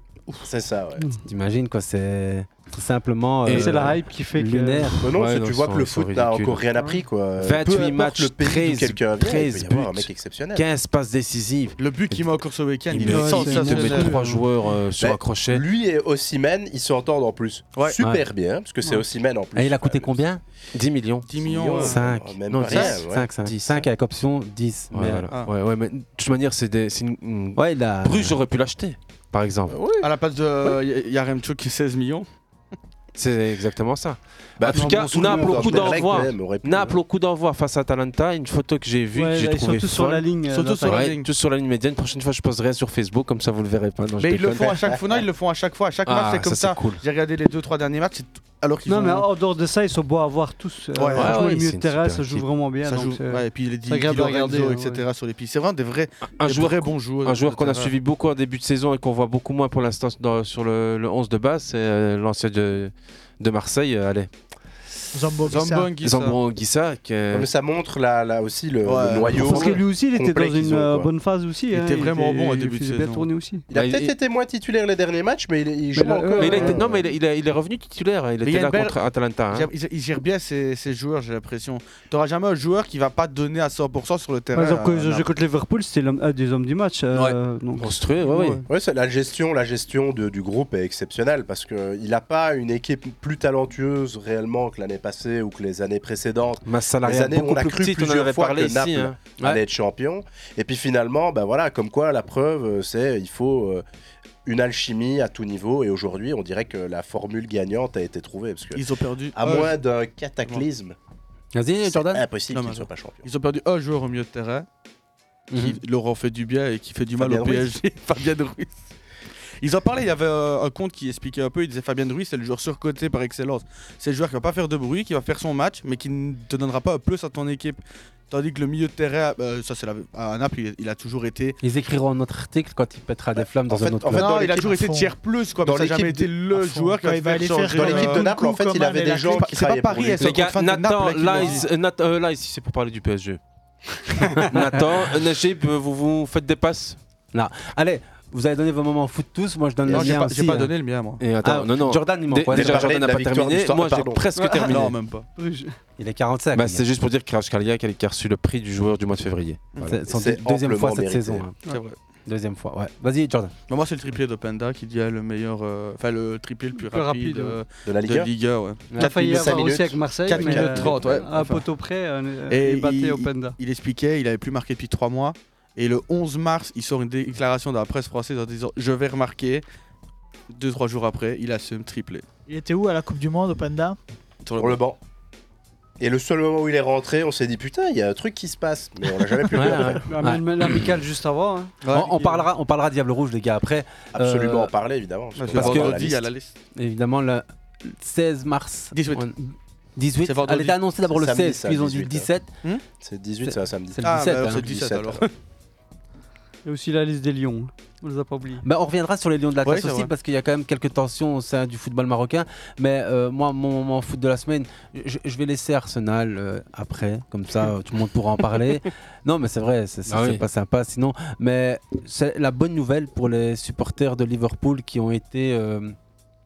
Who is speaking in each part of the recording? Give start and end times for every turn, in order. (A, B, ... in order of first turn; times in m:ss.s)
0:00.5-0:01.0 A
0:01.3-0:05.0 B
0:03.5-0:03.9 C
0:03.5-0:05.0 D
0:05.0-0:10.7 A
0:05.1-0:06.6 C
0:07.4-0:12.2 C
0:11.8-0:14.2 E
0:12.9-0:15.6 C
0:13.0-0:14.5 D
0:15.0-0:20.2 A
0:19.6-0:20.4 B
0:20.8-0:21.3 C
0:21.3-0:22.0 E
0:21.4-0:23.3 A
0:21.8-0:25.3 B
0:23.4-0:23.8 C
0:24.9-0:29.8 C
0:27.6-0:28.4 B
0:29.7-0:30.1 A
0:30.0-0:32.3 E
0:33.2-0:40.3 C
0:34.6-0:37.0 A
0:34.7-0:36.0 D
0:39.1-0:41.1 D
0:40.5-0:41.3 E
0:40.8-0:44.8 C
0:44.2-0:49.3 E
0:44.6-0:45.2 A
0:46.1-0:47.0 C
0:48.9-0:55.0 D
0:51.0-0:51.4 E
0:51.2-0:52.5 C
0:52.8-0:57.9 E
0:56.3-1:04.3 C
1:05.1-1:05.9 F
1:05.5-1:06.4 E
1:06.0-1:07.5 C
1:07.3-1:11.1 A
1:08.8-1:09.5 E
1:09.3-1:13.7 D
1:11.7-1:13.3 E
1:13.7-1:17.0 A
1:13.7-1:14.1 C
1:16.0-1:16.8 D
1:16.4-1:19.7 C
1:18.4-1:19.0 E
1:19.5-1:25.3 E
1:24.5-1:28.6 D
1:27.1-1:27.4 E
1:27.8-1:28.6 C
1:28.7-1:43.8 A
1:36.7-1:39.5 C
1:44.4-1:48.8 A
1:48.8-1:49.8 E
1:49.4-1:51.0 A
1:51.6-1:52.2 B
1:51.9-1:53.3 A
1:52.5-1:54.7 E
1:55.6-1:58.8 E
1:57.2-1:57.7 A
1:59.6-2:11.6 E
2:11.6-2:14.3 B
2:13.7-2:14.7 A
2:14.1-2:18.3 E
2:14.4-2:15.1 F
2:15.6-2:16.2 A
2:16.5-2:19.5 F
2:17.7-2:20.4 A
2:19.2-2:21.7 E
2:20.2-2:23.4 C
2:24.5-2:27.0 C
2:27.3-2:30.7 B
2:29.9-2:31.2 E
2:31.2-2:34.9 C
2:31.4-2:32.9 B
2:32.5-2:34.2 A
2:34.4-2:34.8 D
2:34.7-2:35.3 E
2:35.4-2:35.8 D
2:36.0-2:36.8 B
2:36.6-2:39.9 C
2:39.9-2:41.6 B
2:40.1-2:41.5 A
2:41.7-2:42.0 E
2:42.3-2:43.5 B
2:43.7-2:51.7 E
2:46.8-2:47.6 D
2:47.9-2:48.3 A
2:49.0-2:53.6 D
2:49.1-2:51.3 A
2:52.5-2:59.6 E
3:00.5-3:02.2 E
3:02.5-3:04.0 F
3:04.4-3:04.8 E
3:04.6-3:05.0 A
3:06.0-3:10.0 A
3:09.6-3:10.9 B
3:10.1-3:12.4 D
3:11.8-3:12.1 E
3:11.9-3:14.7 B
3:14.2-3:16.2 A
3:15.4-3:16.5 E
3:15.6-3:16.0 B
3:16.8-3:22.5 B
3:18.9-3:19.2 E
3:20.2-3:20.8 E
3:21.1-3:22.3 A
3:23.0-3:25.2 A
3:24.0-3:25.3 E
3:26.6-3:28.6 D
3:28.6-3:46.0 B
3:29.6-3:30.1 E
3:40.1-3:40.4 C